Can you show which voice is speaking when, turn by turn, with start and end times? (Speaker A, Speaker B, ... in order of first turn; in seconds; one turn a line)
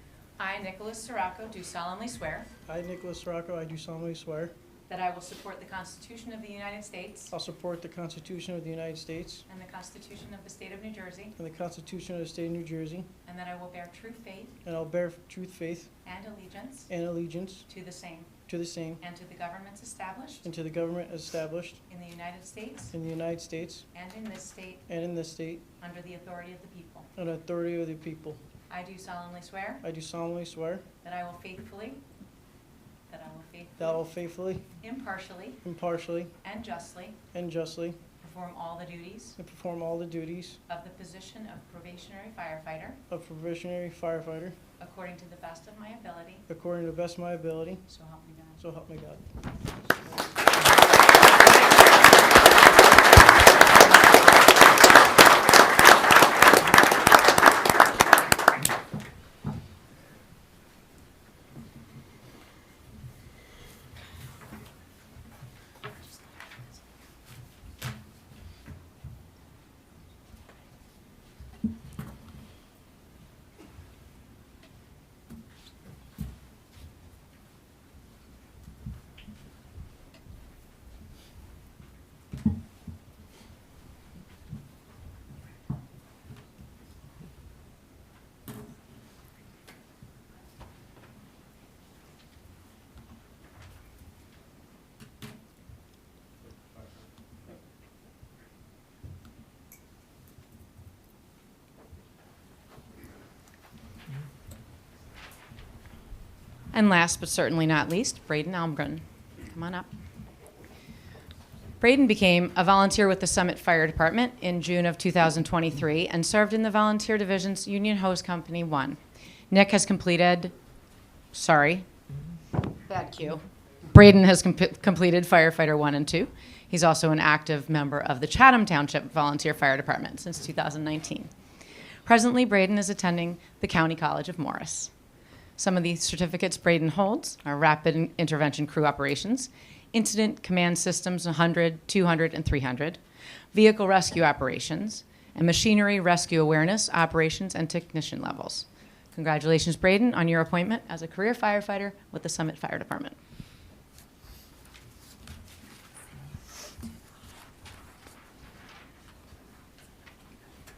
Speaker A: 0.4-2.5
Speaker B: 2.7-4.5
Speaker A: 4.9-7.3
Speaker B: 7.3-9.4
Speaker A: 9.5-11.3
Speaker B: 11.4-13.1
Speaker A: 13.2-14.5
Speaker B: 14.6-15.9
Speaker A: 16.0-16.9
Speaker B: 16.9-17.7
Speaker A: 17.7-18.3
Speaker B: 18.5-19.0
Speaker A: 19.0-20.5
Speaker B: 20.4-21.8
Speaker A: 21.9-22.9
Speaker B: 22.9-23.9
Speaker A: 23.9-24.8
Speaker B: 24.9-25.6
Speaker A: 25.8-27.1
Speaker B: 27.1-28.4
Speaker A: 28.7-29.8
Speaker B: 29.8-30.8
Speaker A: 31.0-32.0
Speaker A: 33.1-33.8
Speaker B: 33.8-34.7
Speaker A: 34.8-35.6
Speaker B: 35.6-36.3
Speaker A: 36.4-37.2
Speaker B: 37.3-38.0
Speaker A: 38.2-39.4
Speaker B: 39.4-40.6
Speaker A: 40.7-43.0
Speaker B: 43.1-44.6
Speaker A: 44.8-46.4
Speaker B: 46.5-47.9
Speaker A: 47.9-48.6
Speaker B: 48.6-49.2
Speaker A: 49.5-50.2
Speaker A: 53.8-54.2
Speaker A: 106.7-109.9
Speaker A: 111.8-119.0
Speaker A: 119.5-120.5
Speaker A: 121.3-121.8
Speaker A: 122.8-131.3
Speaker A: 132.0-134.9
Speaker A: 135.6-143.0
Speaker A: 143.5-153.2